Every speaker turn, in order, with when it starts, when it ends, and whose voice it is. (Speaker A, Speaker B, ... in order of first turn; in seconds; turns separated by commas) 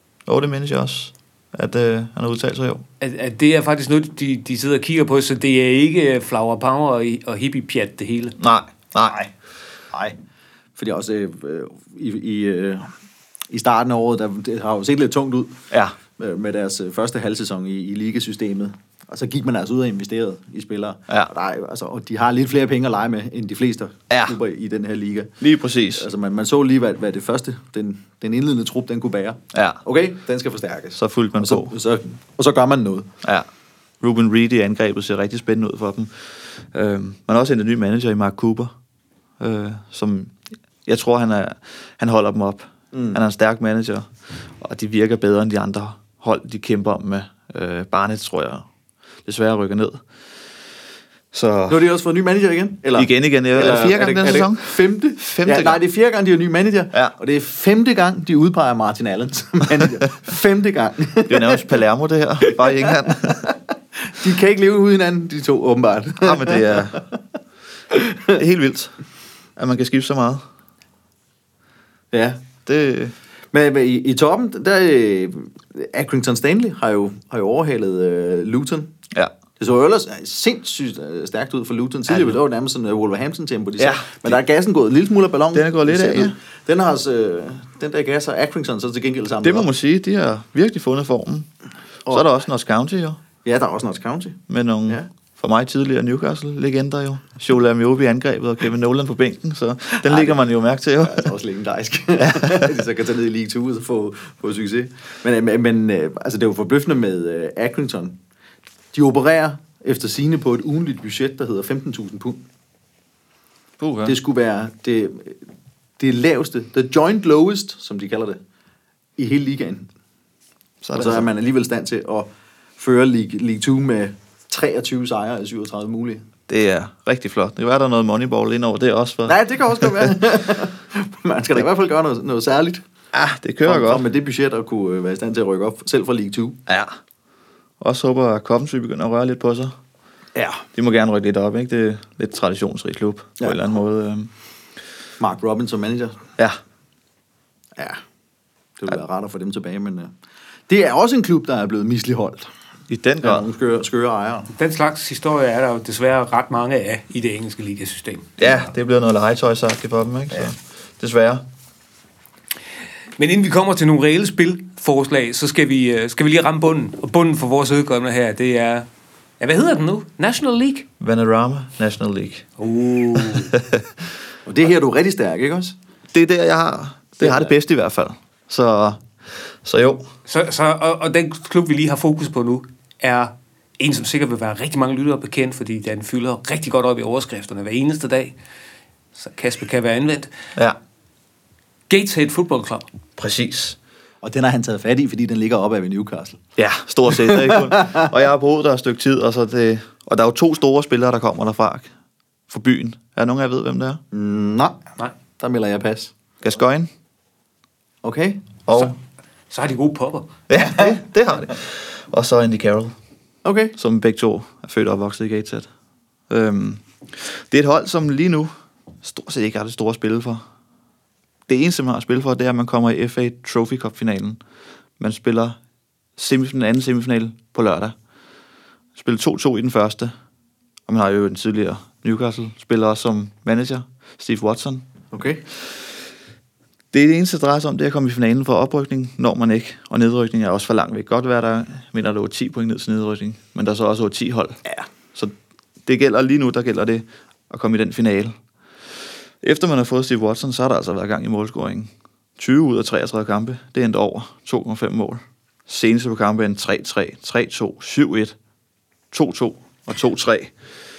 Speaker A: 0.3-2.8, Speaker B: 3.0-8.4, Speaker A: 8.4-9.2, Speaker C: 9.0-9.3, Speaker C: 10.8-12.9, Speaker C: 13.5-15.6, Speaker A: 15.7-15.9, Speaker C: 16.2-25.3, Speaker A: 24.1-24.4, Speaker A: 25.4-26.1, Speaker C: 25.9-33.1, Speaker A: 29.5-29.8, Speaker A: 30.9-31.7, Speaker A: 34.0-38.7, Speaker A: 39.4-48.6, Speaker C: 42.9-43.2, Speaker A: 49.2-50.0, Speaker A: 51.3-51.8, Speaker C: 51.7-61.7, Speaker A: 52.9-55.8, Speaker A: 61.3-63.5, Speaker C: 62.4-67.2, Speaker A: 66.2-67.0, Speaker C: 67.9-68.4, Speaker A: 68.3-68.9, Speaker A: 69.6-70.4, Speaker C: 72.1-72.4, Speaker A: 72.7-73.1, Speaker C: 73.5-78.9, Speaker C: 79.6-89.7, Speaker A: 82.1-82.4, Speaker A: 83.8-84.4, Speaker A: 85.5-86.3, Speaker A: 89.4-91.5, Speaker A: 92.1-93.2, Speaker C: 93.4-95.1, Speaker A: 94.5-101.3, Speaker C: 100.0-100.4, Speaker C: 101.0-108.2, Speaker A: 102.2-102.8, Speaker C: 108.9-112.4, Speaker A: 113.8-114.2, Speaker C: 114.0-115.4, Speaker C: 116.0-118.4, Speaker C: 119.2-119.9, Speaker A: 120.8-121.3, Speaker C: 120.9-126.2, Speaker A: 126.5-130.1, Speaker C: 129.2-132.8, Speaker A: 133.1-134.0, Speaker C: 133.6-136.6, Speaker A: 136.7-136.9, Speaker A: 137.8-139.8, Speaker C: 140.3-140.6, Speaker A: 140.7-144.3, Speaker C: 145.2-146.2, Speaker C: 147.8-148.0, Speaker C: 148.8-150.1, Speaker C: 150.7-152.5, Speaker A: 152.9-153.5, Speaker C: 153.2-154.5, Speaker B: 154.5-158.4, Speaker A: 158.4-161.4, Speaker B: 163.2-168.9, Speaker B: 169.4-170.9, Speaker A: 171.0-172.5, Speaker B: 172.6-173.5, Speaker A: 173.2-173.9, Speaker C: 174.4-175.8, Speaker A: 176.1-180.1, Speaker B: 180.2-188.3, Speaker B: 189.1-190.3, Speaker B: 191.9-192.9, Speaker A: 193.2-193.8, Speaker C: 194.2-196.4, Speaker A: 196.6-201.9, Speaker C: 197.1-198.1, Speaker A: 202.5-204.0, Speaker C: 204.1-204.8, Speaker C: 205.4-206.1, Speaker A: 206.4-206.9, Speaker C: 208.0-208.4, Speaker A: 208.7-208.9, Speaker B: 209.5-210.3, Speaker A: 210.5-212.9, Speaker C: 210.6-210.9, Speaker C: 213.4-213.7, Speaker A: 213.8-215.7, Speaker A: 216.3-220.4, Speaker A: 221.5-224.4, Speaker A: 225.0-225.6, Speaker A: 226.2-227.9, Speaker A: 228.9-230.1, Speaker A: 230.9-234.8, Speaker C: 235.1-235.4, Speaker A: 236.9-244.6, Speaker A: 245.8-248.3, Speaker A: 249.4-258.3, Speaker A: 259.1-260.5